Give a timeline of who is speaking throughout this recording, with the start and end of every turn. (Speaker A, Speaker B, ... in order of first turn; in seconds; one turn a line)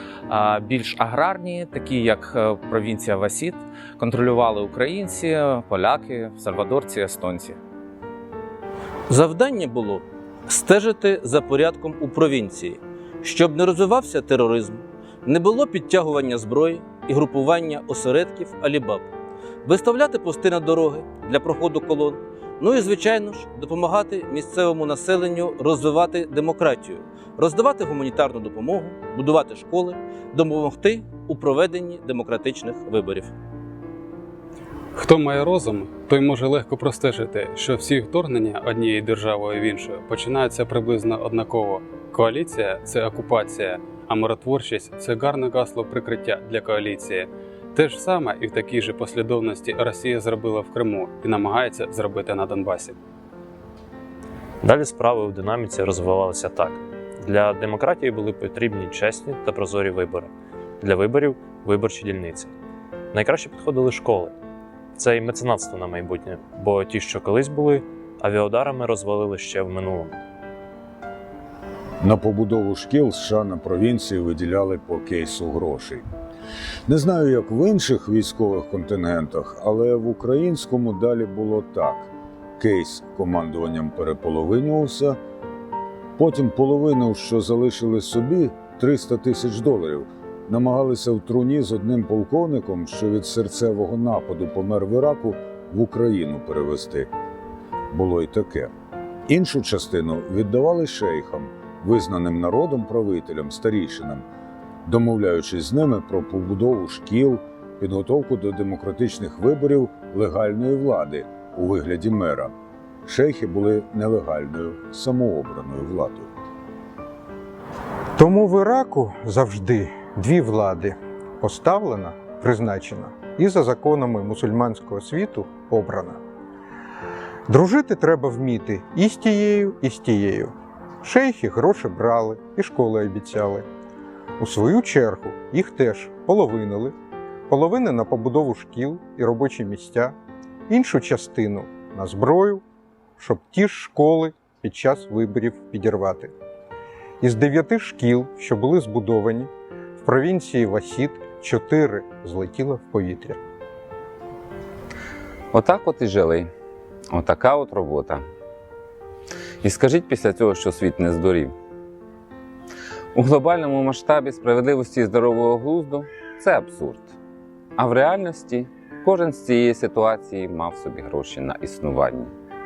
Speaker A: 0.3-7.6
Speaker B: 9.1-19.1
Speaker B: 19.6-33.3
Speaker C: 35.0-53.0
Speaker D: 54.6-62.5
Speaker D: 63.1-64.3
Speaker D: 65.0-70.2
Speaker E: 72.0-76.0
Speaker E: 76.9-85.2
Speaker E: 86.2-97.1
Speaker E: 97.9-98.7
Speaker E: 99.3-104.2
Speaker E: 104.9-112.5
Speaker E: 113.1-116.3
Speaker F: 118.2-126.2
Speaker F: 127.5-133.7
Speaker F: 134.4-136.9
Speaker F: 137.5-140.2
Speaker F: 140.7-142.6
Speaker F: 143.2-146.3
Speaker F: 147.2-149.5
Speaker F: 150.0-153.4
Speaker G: 155.5-156.5
Speaker G: 157.1-158.2
Speaker G: 159.6-161.5
Speaker G: 163.2-167.2
Speaker G: 167.8-172.3